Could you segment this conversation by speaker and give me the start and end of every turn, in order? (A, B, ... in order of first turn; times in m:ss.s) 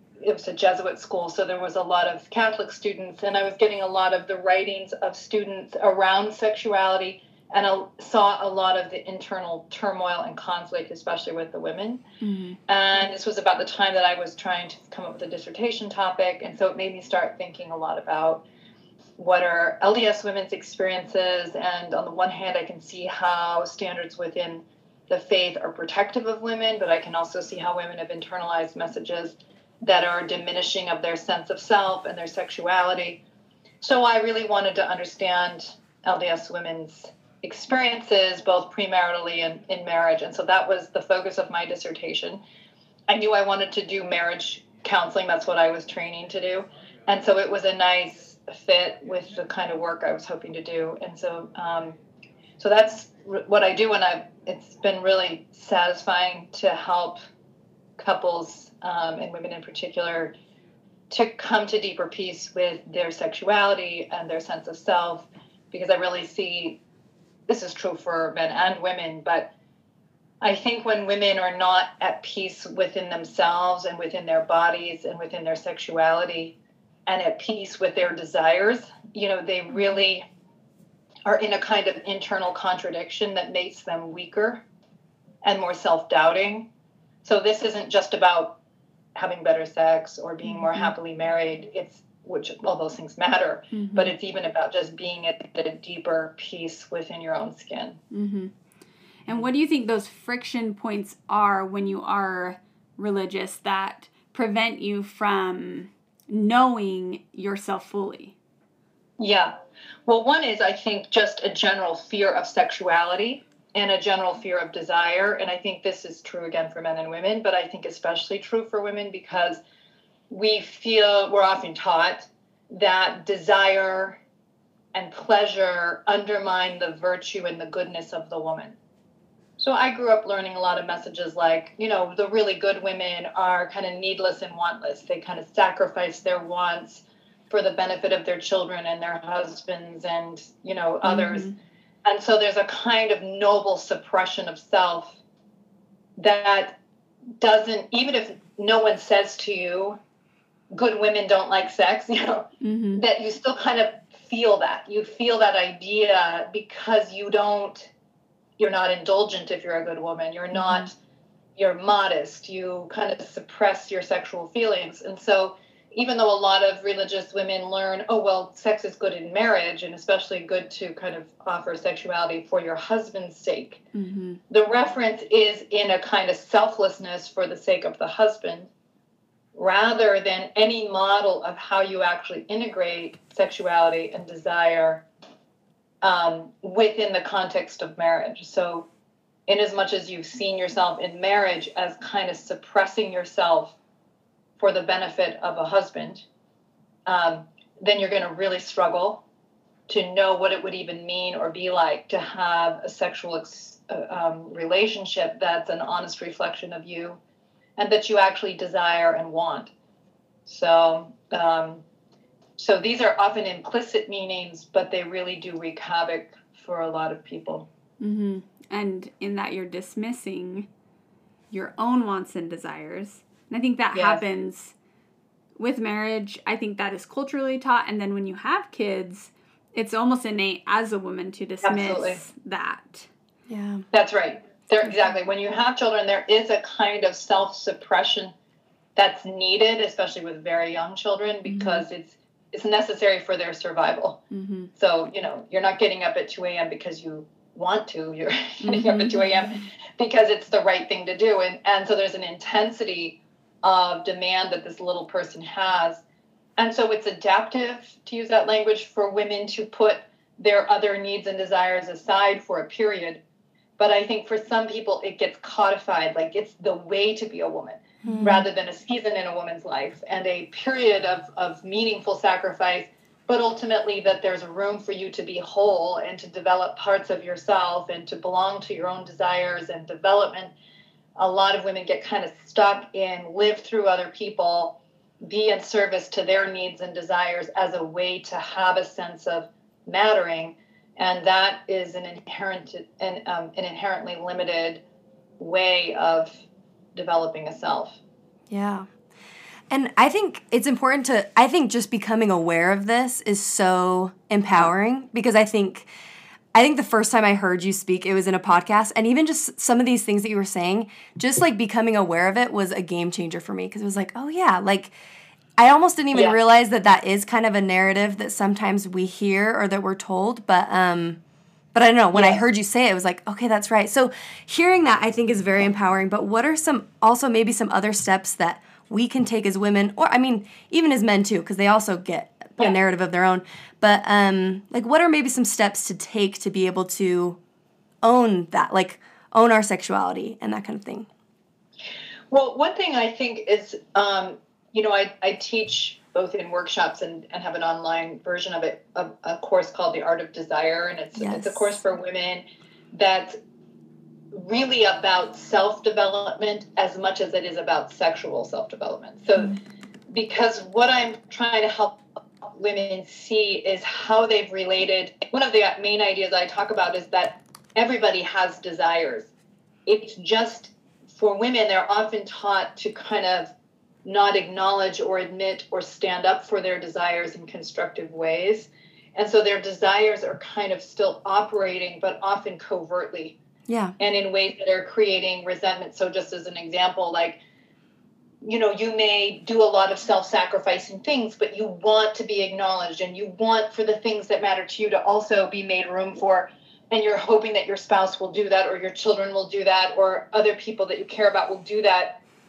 0:00.2-0:12.0 A
0:12.2-0:12.6 B
0:12.7-0:18.4 A
0:19.2-0:33.2 A
0:33.8-0:42.4 A
0:43.1-0:52.0 A
0:52.6-0:57.2 A
0:58.0-1:00.3 A
1:01.1-1:06.8 A
1:07.5-1:09.5 A
1:10.4-1:16.5 A
1:17.1-1:20.2 A
1:21.2-1:24.6 A
1:25.4-1:26.7 A
1:27.2-1:28.6 A
1:29.2-1:38.0 A
1:30.4-1:30.9 B
1:33.7-1:34.1 B
1:38.1-1:38.5 B
1:39.2-1:48.4 B
1:49.2-1:49.5 A
1:50.0-1:59.6 A
2:00.3-2:04.2 A
2:04.9-2:08.8 A
2:09.6-2:21.5 A
2:21.0-2:21.5 B
2:22.0-2:25.2 A
2:26.2-2:26.8 A
2:27.4-2:30.0 A
2:30.7-2:37.9 A
2:32.6-2:33.0 B
2:38.6-2:40.9 A
2:40.5-2:40.9 B
2:41.6-2:53.8 A
2:53.9-2:54.4 B
2:54.5-2:58.7 A
2:59.5-3:05.0 A
3:06.0-3:08.9 A
3:09.5-3:13.8 A
3:14.6-3:16.2 A
3:17.0-3:19.2 A
3:19.9-3:27.2 A
3:27.8-3:29.7 A
3:30.4-3:31.8 A
3:32.6-3:37.7 A
3:38.0-3:40.7 B
3:41.5-3:44.7 B
3:43.9-3:44.2 A
3:45.6-3:53.1 B
3:51.6-3:52.2 A
3:53.5-3:53.8 C
3:53.9-3:58.3 A
3:59.0-4:04.2 A
4:01.5-4:01.8 B
4:04.3-4:04.7 B
4:04.8-4:16.0 A
4:08.6-4:09.6 B
4:16.6-4:23.2 A
4:23.8-4:40.5 A
4:28.0-4:28.4 C
4:41.2-4:54.8 A
4:55.4-4:56.4 A
4:56.9-4:58.0 A
4:58.5-4:58.9 C
4:59.7-5:05.9 C
5:06.5-5:14.9 C
5:15.6-5:21.2 C
5:21.7-5:37.4 C
5:22.1-5:22.4 A
5:38.0-5:41.1 C
5:42.3-5:53.4 A
5:51.2-5:51.8 C
5:54.3-5:59.6 A
6:00.1-6:09.3 A
6:09.8-6:13.5 A
6:14.0-6:23.4 A
6:23.7-6:23.9 C
6:24.0-6:27.4 A
6:28.4-6:42.2 A